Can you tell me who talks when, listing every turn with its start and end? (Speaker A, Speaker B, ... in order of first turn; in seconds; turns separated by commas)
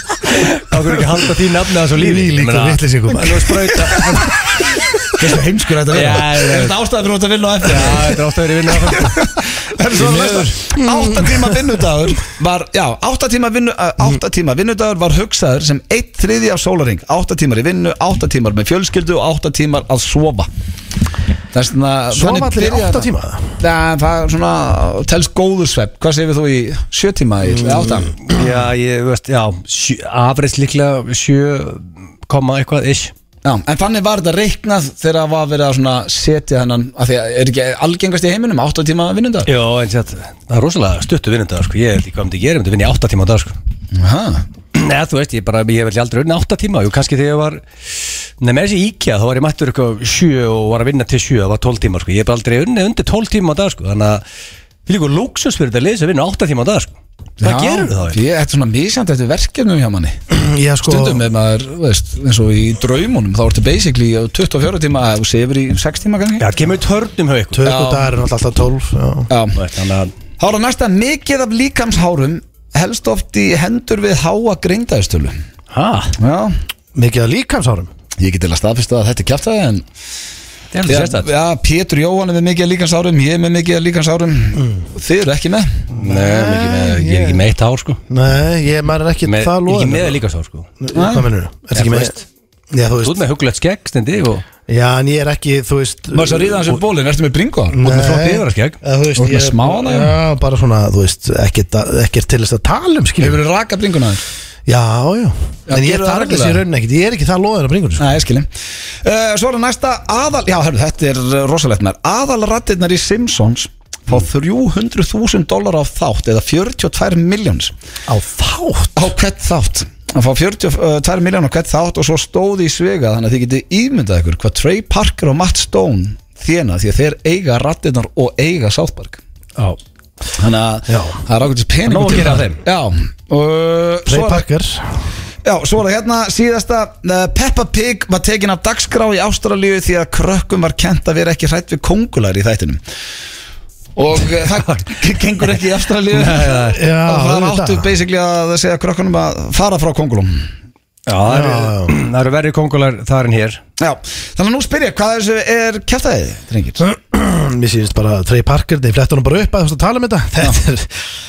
Speaker A: 0.3-4.3, Speaker B: 1.9-4.8, Speaker C: 5.2-8.2, Speaker A: 5.9-6.7, Speaker A: 7.6-9.2, Speaker C: 8.9-20.5, Speaker A: 10.0-10.4, Speaker B: 10.7-11.6, Speaker C: 21.5-28.1, Speaker B: 22.1-23.6, Speaker A: 28.2-33.1, Speaker C: 33.4-39.5, Speaker A: 39.5-43.5, Speaker C: 43.9-44.4, Speaker A: 44.7-47.6, Speaker A: 48.4-54.2, Speaker A: 54.9-58.2, Speaker C: 57.4-60.2, Speaker B: 60.3-61.2, Speaker C: 60.8-66.5, Speaker A: 66.4-67.6, Speaker B: 67.5-69.3, Speaker C: 67.6-68.1, Speaker C: 69.3-69.6, Speaker A: 69.5-70.1, Speaker C: 70.4-75.4, Speaker A: 75.7-76.1, Speaker C: 76.2-76.5, Speaker B: 76.9-77.9, Speaker C: 78.2-79.8, Speaker A: 80.7-81.3, Speaker C: 80.9-85.8, Speaker A: 86.0-88.0, Speaker B: 86.0-87.4, Speaker B: 88.1-90.2, Speaker A: 89.2-90.7, Speaker B: 90.8-92.1, Speaker C: 90.9-91.3, Speaker A: 91.8-92.2, Speaker B: 92.7-93.2, Speaker A: 93.0-94.4, Speaker B: 94.7-96.7, Speaker C: 96.1-97.8, Speaker B: 97.7-103.4, Speaker A: 97.8-98.8, Speaker C: 99.2-100.1, Speaker C: 103.2-104.2, Speaker B: 104.7-108.0, Speaker C: 105.7-106.6, Speaker C: 108.0-108.5, Speaker C: 109.0-117.7, Speaker B: 118.1-119.0, Speaker C: 119.0-129.2, Speaker C: 130.4-134.4, Speaker B: 130.9-131.2, Speaker A: 131.8-132.6, Speaker B: 134.1-135.0, Speaker C: 135.4-142.8, Speaker C: 143.9-150.5, Speaker A: 144.3-144.9, Speaker A: 146.1-146.8, Speaker B: 146.7-147.9, Speaker A: 151.1-153.6, Speaker B: 151.2-151.9, Speaker C: 153.8-156.8, Speaker B: 156.8-160.9